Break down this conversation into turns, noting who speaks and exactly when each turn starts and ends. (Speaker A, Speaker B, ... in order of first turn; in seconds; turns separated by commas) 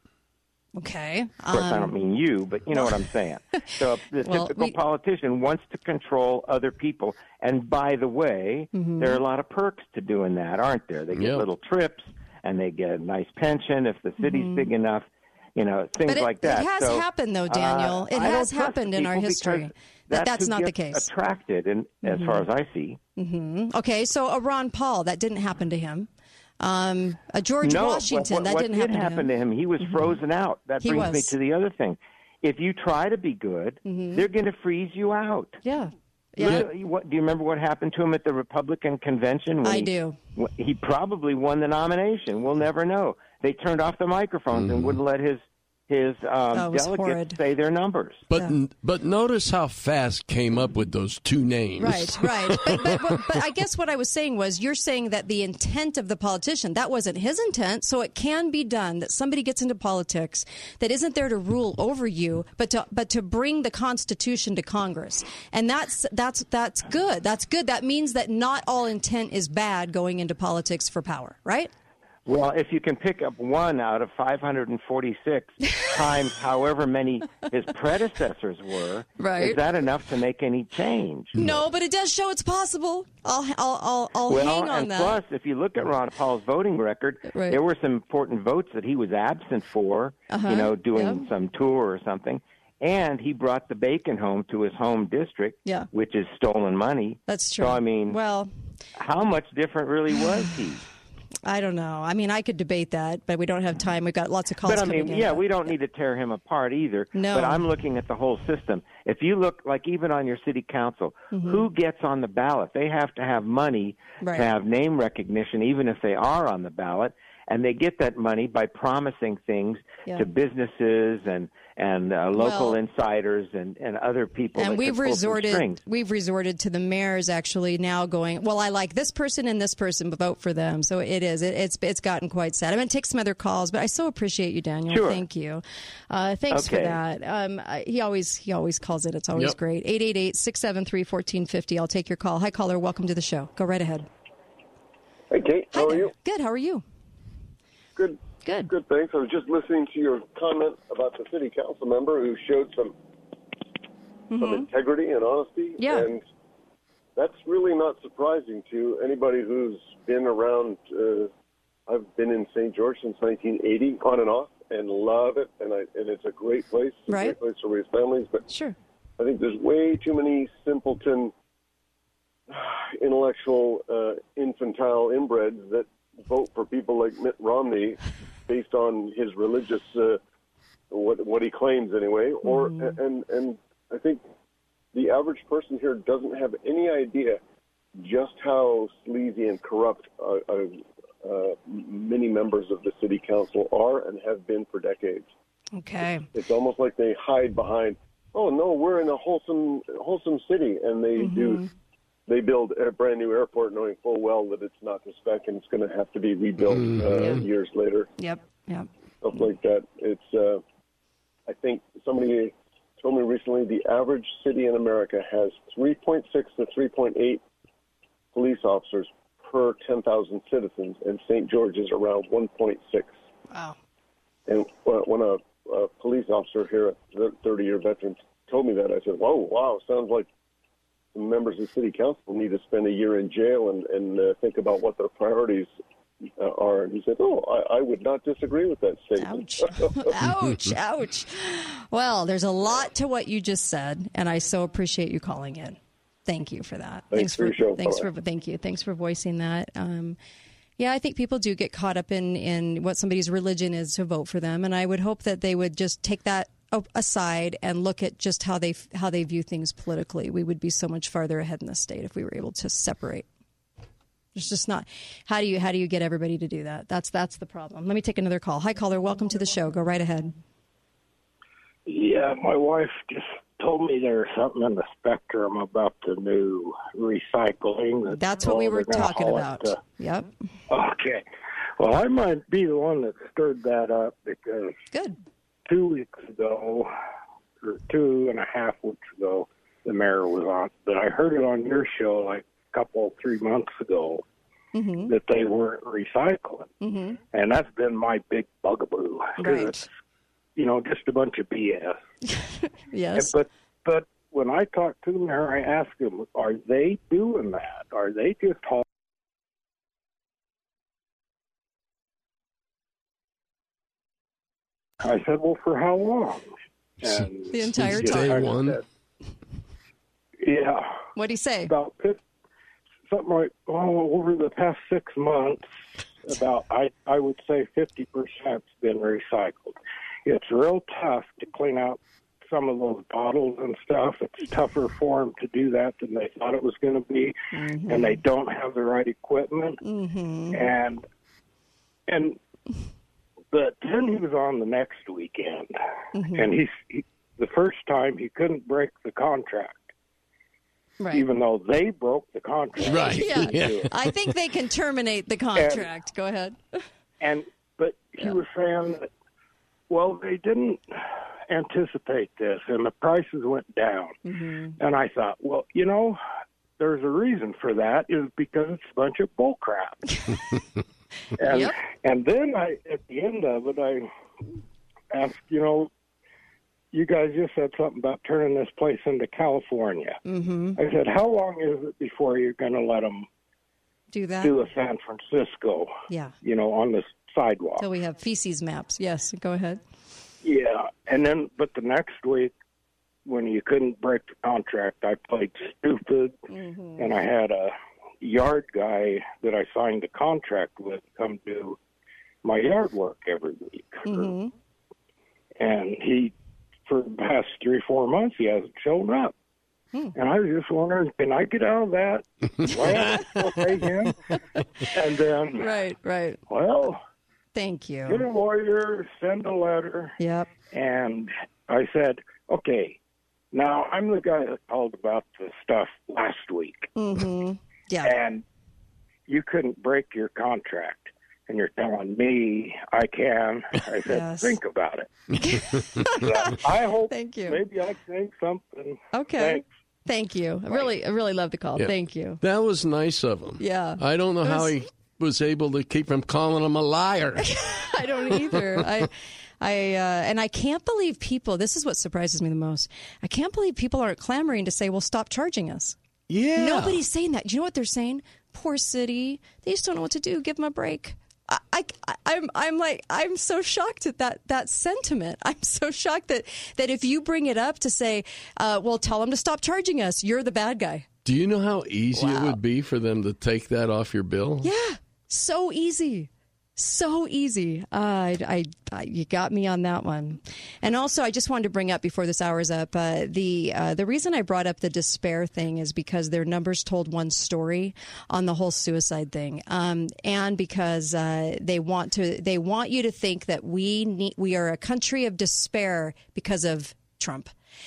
Speaker A: 0.8-1.9, Speaker B: 1.5-23.0, Speaker A: 2.7-3.0, Speaker A: 3.5-4.7, Speaker A: 8.7-9.2, Speaker C: 11.2-11.4, Speaker A: 14.2-14.7, Speaker A: 16.1-21.1, Speaker A: 22.0-22.4, Speaker A: 23.1-26.1, Speaker A: 26.6-29.2, Speaker B: 27.6-35.6, Speaker A: 29.8-30.1, Speaker A: 30.8-31.3, Speaker A: 33.8-34.2, Speaker A: 35.6-36.7, Speaker B: 36.4-48.2, Speaker A: 39.6-40.2, Speaker C: 44.6-44.9, Speaker A: 46.5-47.4, Speaker C: 48.3-53.2, Speaker A: 51.8-71.7, Speaker B: 72.3-81.3, Speaker A: 79.2-79.6, Speaker A: 81.4-85.2, Speaker B: 84.3-98.2, Speaker A: 87.3-87.6, Speaker A: 90.3-91.2, Speaker A: 97.3-98.5, Speaker B: 99.0-100.8, Speaker A: 101.5-105.7, Speaker B: 104.6-125.8, Speaker A: 107.1-107.6, Speaker A: 111.3-111.6, Speaker A: 114.2-114.5, Speaker A: 122.3-122.8, Speaker A: 124.6-144.1, Speaker B: 134.9-135.2, Speaker B: 136.5-137.0, Speaker D: 145.3-146.1, Speaker A: 145.7-146.8, Speaker D: 147.9-152.9, Speaker A: 148.4-148.7, Speaker A: 154.3-154.7, Speaker D: 154.4-156.2, Speaker A: 155.8-156.1, Speaker D: 157.2-161.3, Speaker D: 161.9-168.4, Speaker A: 167.1-167.4, Speaker A: 168.5-168.7, Speaker D: 169.2-171.3, Speaker D: 172.5-180.2, Speaker D: 180.9-184.2, Speaker A: 182.4-183.0, Speaker D: 184.9-187.4, Speaker D: 188.0-195.3, Speaker A: 195.8-196.2, Speaker D: 196.3-201.6, Speaker A: 201.2-201.7, Speaker D: 202.3-208.1, Speaker C: 206.7-207.4, Speaker A: 207.1-207.5, Speaker A: 208.2-208.9, Speaker D: 209.2-210.6, Speaker D: 211.5-217.4, Speaker D: 218.3-223.1, Speaker A: 223.5-223.8, Speaker D: 224.5-230.3, Speaker D: 231.1-235.7, Speaker D: 236.4-240.1, Speaker A: 239.2-250.2, Speaker C: 240.2-240.7, Speaker D: 247.1-248.1, Speaker A: 250.8-263.2, Speaker A: 264.3-270.3, Speaker E: 271.9-279.8, Speaker A: 278.1-280.3, Speaker E: 280.7-281.2, Speaker E: 281.8-284.7, Speaker A: 284.9-285.2, Speaker E: 285.7-286.9, Speaker E: 287.6-294.2, Speaker A: 294.7-295.1, Speaker E: 295.1-296.7, Speaker A: 296.8-297.2, Speaker E: 297.3-299.8, Speaker A: 299.4-299.9, Speaker E: 300.6-302.0, Speaker A: 302.3-303.3, Speaker E: 303.1-308.8, Speaker E: 315.0-316.5, Speaker E: 317.0-318.8, Speaker C: 317.1-318.8, Speaker A: 317.5-318.5, Speaker E: 320.4-320.9, Speaker A: 321.1-321.7, Speaker E: 321.6-322.2, Speaker E: 323.1-325.6, Speaker E: 326.2-337.3, Speaker A: 337.5-338.2, Speaker E: 337.9-339.8, Speaker A: 339.8-340.7, Speaker E: 340.5-341.0, Speaker E: 342.1-342.4, Speaker E: 343.5-345.7, Speaker A: 346.1-346.5, Speaker E: 346.3-349.9, Speaker A: 351.0-351.3, Speaker E: 351.1-353.9, Speaker C: 352.8-354.2, Speaker A: 353.0-356.8, Speaker E: 355.5-355.9, Speaker E: 357.2-359.1, Speaker E: 359.9-360.8, Speaker E: 361.5-364.1, Speaker A: 364.2-364.8, Speaker E: 364.8-366.2, Speaker E: 366.8-370.0, Speaker E: 371.4-374.1, Speaker A: 371.5-371.8, Speaker E: 375.1-375.9, Speaker E: 376.9-380.2, Speaker A: 380.2-380.8, Speaker E: 380.8-383.2, Speaker A: 384.1-384.5, Speaker E: 384.4-385.9, Speaker A: 386.1-386.3, Speaker E: 386.4-387.9, Speaker A: 387.8-389.8, Speaker E: 390.4-392.5, Speaker E: 393.2-396.3, Speaker A: 396.5-397.2, Speaker E: 397.0-401.8, Speaker E: 402.4-404.3, Speaker A: 404.1-404.5, Speaker E: 405.6-406.3, Speaker E: 406.9-409.3, Speaker E: 410.1-414.1, Speaker A: 412.8-413.4, Speaker A: 414.6-414.8, Speaker E: 414.9-415.7, Speaker A: 415.6-416.4, Speaker E: 416.5-417.0, Speaker A: 417.5-418.2, Speaker E: 418.1-420.1, Speaker A: 420.2-420.5, Speaker E: 420.7-423.0, Speaker E: 423.5-426.9, Speaker A: 426.9-428.2, Speaker E: 428.0-428.4, Speaker E: 429.3-435.1, Speaker A: 434.1-434.6, Speaker A: 435.4-437.6, Speaker E: 436.0-439.6, Speaker A: 439.1-442.4, Speaker C: 441.8-447.6, Speaker A: 443.6-444.7, Speaker A: 447.4-456.0, Speaker C: 448.5-448.8, Speaker C: 456.3-457.0, Speaker A: 456.6-471.1, Speaker C: 471.2-474.7, Speaker A: 472.1-472.6, Speaker A: 474.6-497.5